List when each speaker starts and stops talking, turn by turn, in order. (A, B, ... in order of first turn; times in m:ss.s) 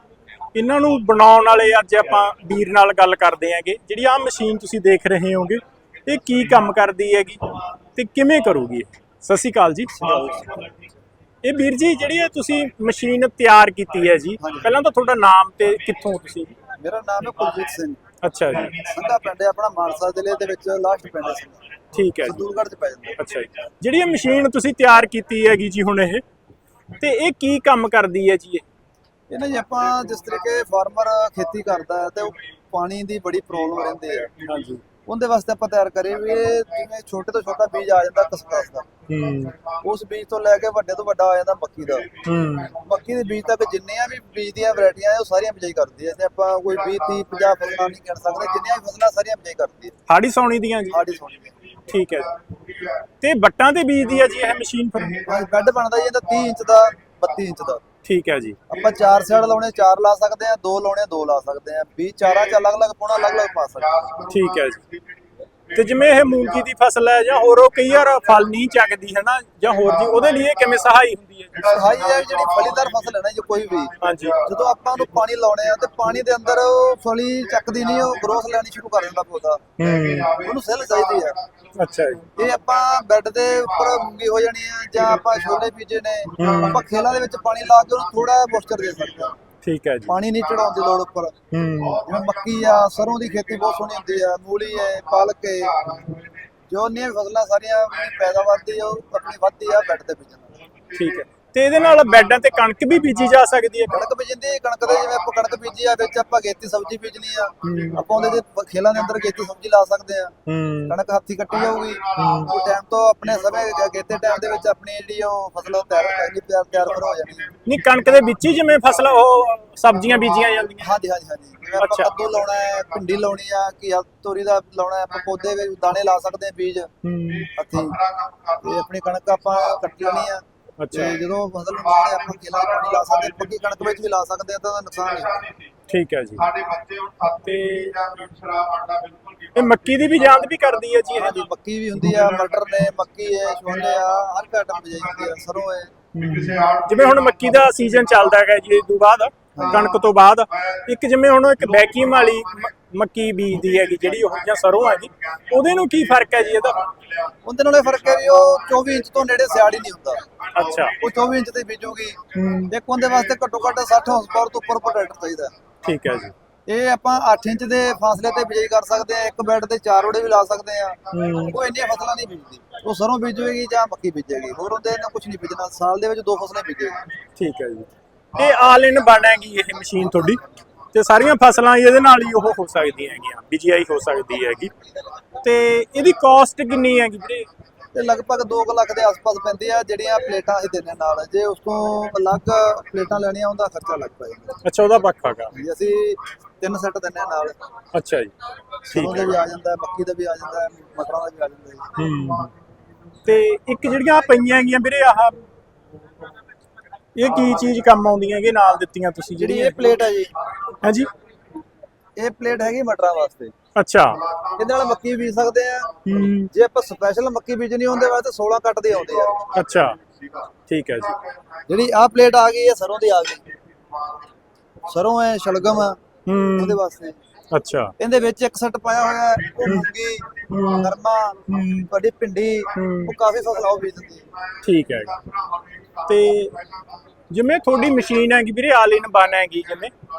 0:00.5-0:07.4 A
0:08.0-0:10.5 A
0:09.9-0:10.7 B
0:11.4-0:16.6 A
0:14.4-0:14.8 B
0:16.8-0:18.0 B
0:18.2-0:18.8 A
0:18.7-0:21.6 B
0:21.9-0:22.5 A
0:22.2-0:23.2 B
0:23.2-0:26.2 A
0:27.0-0:28.6 A
0:29.3-0:34.3 B
0:34.4-0:34.8 A
0:35.1-0:38.9 B
0:39.1-0:39.6 A
0:39.8-0:42.1 B
0:42.2-0:42.7 A
0:42.8-0:50.0 B
0:50.1-0:51.0 A
0:50.9-0:51.5 B
0:51.9-0:52.3 A
0:53.2-0:55.2 A
0:55.2-0:57.8 B
0:58.0-0:58.6 A
0:58.7-1:04.2 B
1:04.3-1:04.8 A
1:05.7-1:11.6 A
1:11.6-1:19.6 B
1:11.6-1:12.4 C
1:14.0-1:14.4 A
1:19.8-1:20.3 A
1:20.0-1:20.4 C
1:20.4-1:21.4 B
1:21.8-1:22.2 A
1:22.4-1:29.4 B
1:26.4-1:26.8 A
1:26.5-1:26.8 C
1:29.6-1:30.1 A
1:30.1-1:31.4 B
1:31.5-1:32.0 A
1:32.0-1:35.8 B
1:36.7-1:40.5 B
1:40.9-1:44.0 A
1:43.9-1:50.3 B
1:47.6-1:48.0 A
1:50.5-1:51.0 A
1:50.9-1:57.5 B
1:52.2-1:52.5 A
1:57.6-2:00.9 A
2:00.8-2:06.9 B
2:01.8-2:02.1 A
2:07.0-2:07.5 A
2:07.6-2:08.0 B
2:08.6-2:15.4 B
2:10.8-2:11.2 A
2:15.9-2:16.5 A
2:16.5-2:19.5 C
2:17.4-2:18.0 A
2:19.6-2:21.4 A
2:21.1-2:26.0 B
2:26.1-2:36.9 A
2:26.3-2:27.3 C
2:29.6-2:29.9 B
2:31.8-2:32.3 C
2:33.8-2:34.3 C
2:37.4-2:40.3 B
2:40.5-2:41.0 A
2:40.8-2:41.2 C
2:41.0-2:42.2 B
2:42.3-2:42.7 A
2:42.7-2:45.5 B
2:45.8-2:46.3 A
2:46.7-2:57.0 B
2:51.1-2:51.6 A
2:57.4-3:00.4 A
3:00.9-3:04.7 A
3:05.4-3:07.5 A
3:07.9-3:14.6 B
3:14.6-3:15.5 A
3:15.5-3:17.6 B
3:17.9-3:18.3 A
3:18.9-3:21.9 B
3:18.9-3:19.4 A
3:22.0-3:22.5 A
3:23.2-3:25.4 A
3:27.2-3:29.9 A
3:29.4-3:30.3 B
3:30.8-3:31.1 A
3:32.2-3:33.5 B
3:33.8-3:34.2 A
3:34.6-3:35.9 B
3:36.0-3:36.5 A
3:36.5-3:39.5 B
3:39.5-3:40.0 A
3:40.7-3:41.2 A
3:41.7-3:43.4 B
3:44.9-3:46.0 B
3:46.3-3:46.8 A
3:46.6-3:47.2 B
3:47.5-3:47.9 A
3:48.0-3:50.3 B
3:49.6-3:49.9 A
3:50.5-3:50.9 A
3:50.8-3:54.3 B
3:51.5-3:51.9 A
3:52.8-3:53.2 A
3:54.6-3:55.2 A
3:55.3-3:55.9 C
3:56.1-3:56.6 A
3:57.3-3:59.9 A